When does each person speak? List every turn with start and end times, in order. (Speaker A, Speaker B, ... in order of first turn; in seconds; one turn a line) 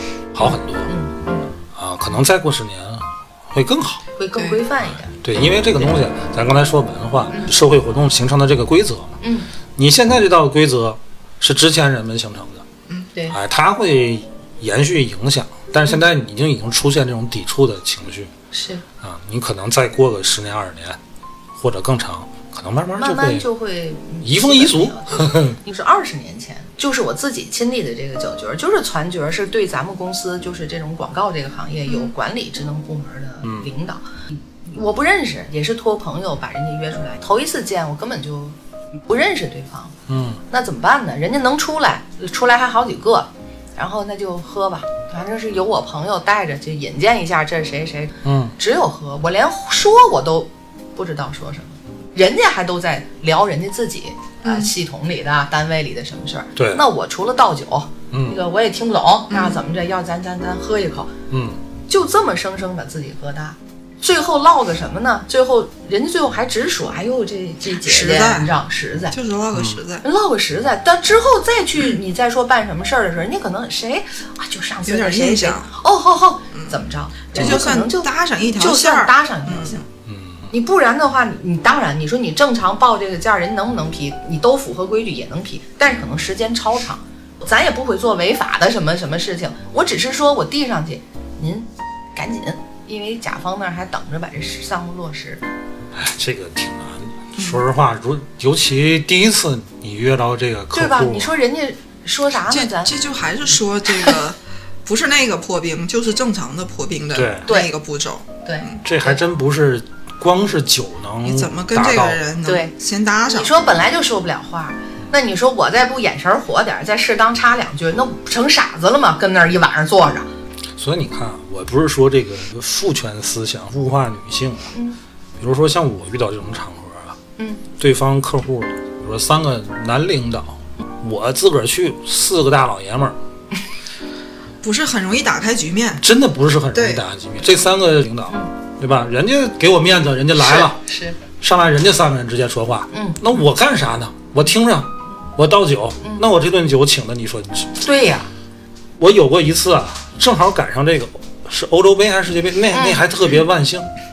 Speaker A: 0.3-0.9
Speaker B: 0.9-1.5
Speaker A: 1.7-4.0
Speaker B: 4.2-5.2
Speaker C: 4.4-4.6
Speaker A: 5.1-9.2
Speaker B: 9.2-9.5
Speaker A: 9.8-12.6
Speaker A: 13.3-18.3
Speaker B: 18.5-18.8
Speaker A: 19.0-21.0
Speaker A: 21.6-23.4
Speaker B: 23.0-40.0
Speaker A: 24.2-25.6
Speaker A: 33.4-33.7
Speaker A: 40.1-40.4
Speaker B: 40.5-61.1
Speaker A: 48.2-48.5
Speaker C: 54.4-54.7
Speaker A: 56.5-56.8
Speaker A: 58.1-58.4
Speaker C: 59.3-59.6
Speaker A: 61.3-61.6
Speaker B: 61.9-69.2
Speaker C: 67.8-68.6
Speaker C: 69.1-70.0
Speaker A: 69.5-69.8
Speaker B: 70.0-79.8
Speaker C: 74.8-75.7
Speaker C: 77.3-79.8
Speaker A: 80.0-80.5
Speaker B: 80.5-95.4
Speaker A: 95.9-101.3
Speaker B: 100.7-102.9
Speaker C: 102.5-108.8
Speaker A: 107.1-107.5
Speaker B: 107.5-107.7
Speaker B: 108.4-109.2
Speaker A: 108.8-112.2
Speaker C: 111.2-113.6
Speaker B: 112.4-112.7
Speaker B: 113.3-120.3
Speaker A: 120.8-124.7
Speaker A: 125.4-127.2
Speaker B: 127.4-127.6
Speaker A: 127.8-133.2
Speaker C: 134.6-136.0
Speaker A: 136.0-140.8
Speaker C: 136.7-137.0
Speaker B: 140.4-141.2
Speaker A: 141.4-147.8
Speaker B: 142.9-143.2
Speaker B: 147.8-148.3
Speaker A: 149.0-153.9
Speaker B: 152.7-153.0